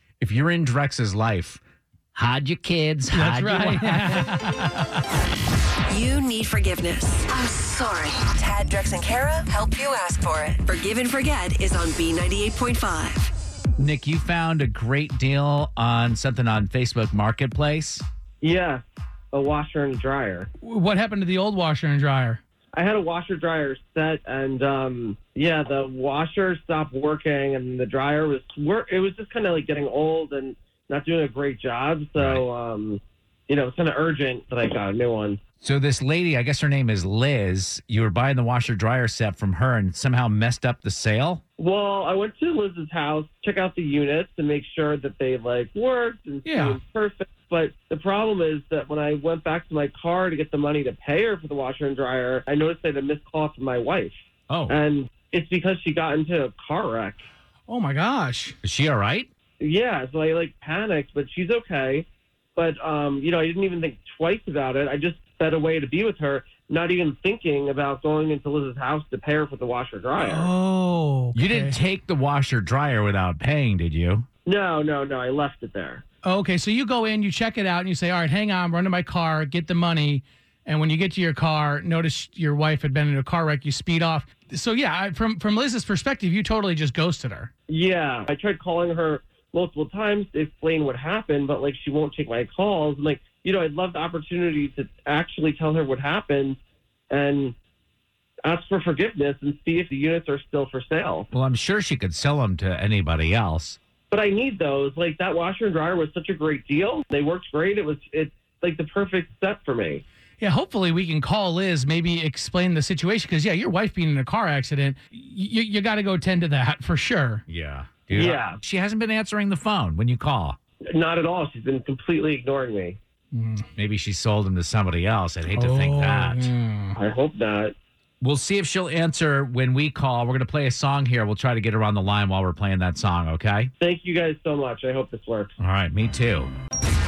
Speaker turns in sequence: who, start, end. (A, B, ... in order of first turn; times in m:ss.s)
0:00.2-0:01.6 A
0:02.1-0:04.3 A
0:03.1-0:05.0 B
0:05.9-0:13.3 C
0:13.8-0:18.0 A
0:18.4-0:20.5 D
0:20.6-0:22.4 B
0:22.7-0:35.4 D
0:32.2-0:32.4 A
0:35.6-0:41.4 A
0:41.6-0:57.3 D
0:46.4-0:46.8 B
0:54.5-0:54.8 A
0:57.7-0:58.6 B
0:58.6-0:59.3 A
0:59.6-1:10.5 D
1:10.2-1:11.8 B
1:11.3-1:14.3 A
1:14.4-1:16.0 D
1:16.2-1:27.5 B
1:27.7-1:36.6 D
1:37.1-1:37.6 D
1:38.4-1:41.3 D
1:41.3-1:43.8 A
1:44.1-1:50.0 D
1:50.4-1:57.4 B
1:57.5-2:00.6 A
1:58.1-1:58.6 D
2:00.9-2:03.0 D
2:03.3-2:03.6 B
2:03.7-2:06.5 A
2:05.5-2:07.0 B
2:07.0-2:07.7 D
2:08.2-2:13.7 A
2:13.8-2:15.5 D
2:15.6-2:16.5 A